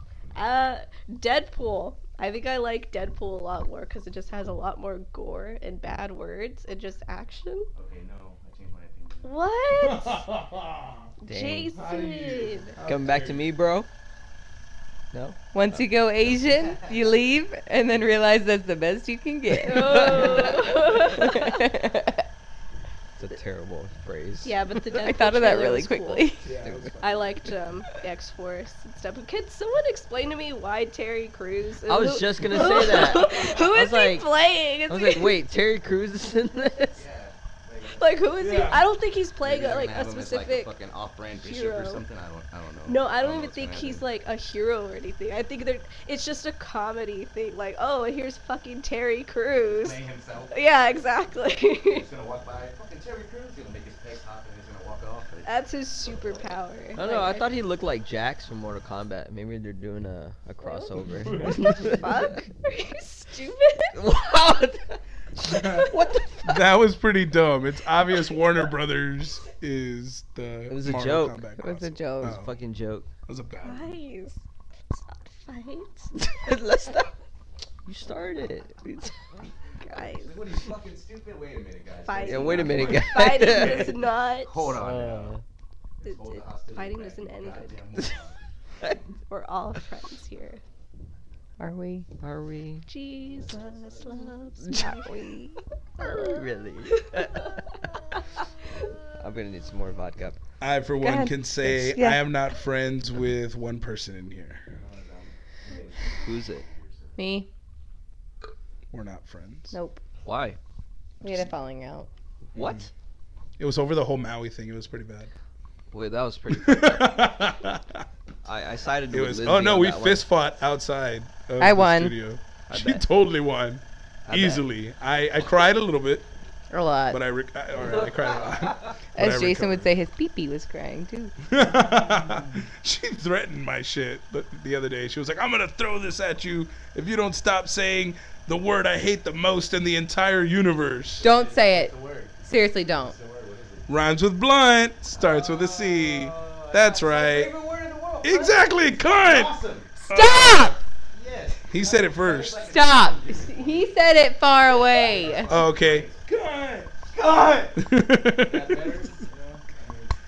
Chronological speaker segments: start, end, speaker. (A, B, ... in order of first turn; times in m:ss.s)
0:00.4-0:07.7 A
0:07.7-0:09.3 B
0:09.2-0:10.2 A
0:09.8-0:11.1 C
0:11.2-0:12.8 A
0:11.3-0:11.7 D
0:11.7-0:13.4 C
0:12.8-0:13.9 D
0:15.1-0:15.4 D
0:15.5-0:22.2 E
0:16.2-0:16.9 B
0:19.6-0:21.6 A
0:19.7-0:20.6 D
0:23.2-0:24.8 D
0:24.4-0:26.4 A
0:25.0-0:26.5 E
0:26.4-0:27.3 C
0:26.6-0:27.0 D
0:27.0-0:35.4 A
0:31.9-0:34.3 D
0:34.9-0:37.0 D
0:36.9-0:38.2 B
0:37.9-0:40.7 A
0:38.4-0:38.8 C
0:39.4-0:44.0 B
0:41.4-0:42.0 A
0:42.8-0:50.0 A
0:49.6-0:50.7 B
0:50.5-0:52.0 A
0:51.9-0:55.5 B
0:55.4-0:57.5 A
0:56.0-0:56.5 B
0:56.9-1:02.3 D
1:00.6-1:04.0 A
1:03.9-1:06.7 D
1:05.4-1:05.9 C
1:06.4-1:12.5 C
1:10.7-1:11.4 D
1:11.6-1:12.4 E
1:12.2-1:13.1 D
1:13.3-1:14.0 C
1:13.6-1:16.1 A
1:16.2-1:17.1 D
1:17.8-1:19.2 D
1:19.8-1:20.3 A
1:20.1-1:25.3 B
1:22.0-1:24.7 A
1:22.2-1:23.9 D
1:24.7-1:25.4 D
1:26.0-1:28.4 B
1:26.0-1:27.8 A
1:29.3-1:30.6 A
1:31.6-1:32.1 E
1:32.2-1:32.8 D
1:32.9-1:36.4 A
1:33.2-1:34.2 B
1:34.6-1:35.4 D
1:36.0-1:37.6 D
1:37.0-1:37.6 A
1:39.2-1:40.4 D
1:40.6-1:44.6 C
1:41.0-1:42.2 E
1:44.8-1:47.2 B
1:46.2-1:46.6 D
1:47.2-1:47.5 E
1:48.9-1:49.7 C
1:49.7-1:50.0 E
1:50.2-1:50.6 D
1:51.2-1:52.1 E
1:52.5-1:52.9 D
1:52.6-1:52.9 C
1:53.6-1:55.3 C
1:55.9-1:57.2 D
1:56.5-1:58.0 C
1:58.4-2:00.2 D
1:59.1-2:06.3 C
2:01.6-2:02.2 E
2:02.7-2:03.0 D
2:04.2-2:04.6 D
2:06.7-2:07.2 E
2:07.1-2:09.9 C
2:07.7-2:08.6 B
2:09.1-2:11.3 E
2:11.4-2:21.2 C
2:21.2-2:23.9 B
2:21.2-2:23.1 E
2:23.9-2:27.5 C
2:25.2-2:29.9 B
2:28.2-2:29.5 C
2:30.0-2:30.8 E
2:30.1-2:30.8 C
2:31.1-2:34.0 B
2:31.7-2:32.6 C
2:32.6-2:35.6 E
2:34.7-2:40.1 B
2:35.5-2:36.9 C
2:37.8-2:39.1 C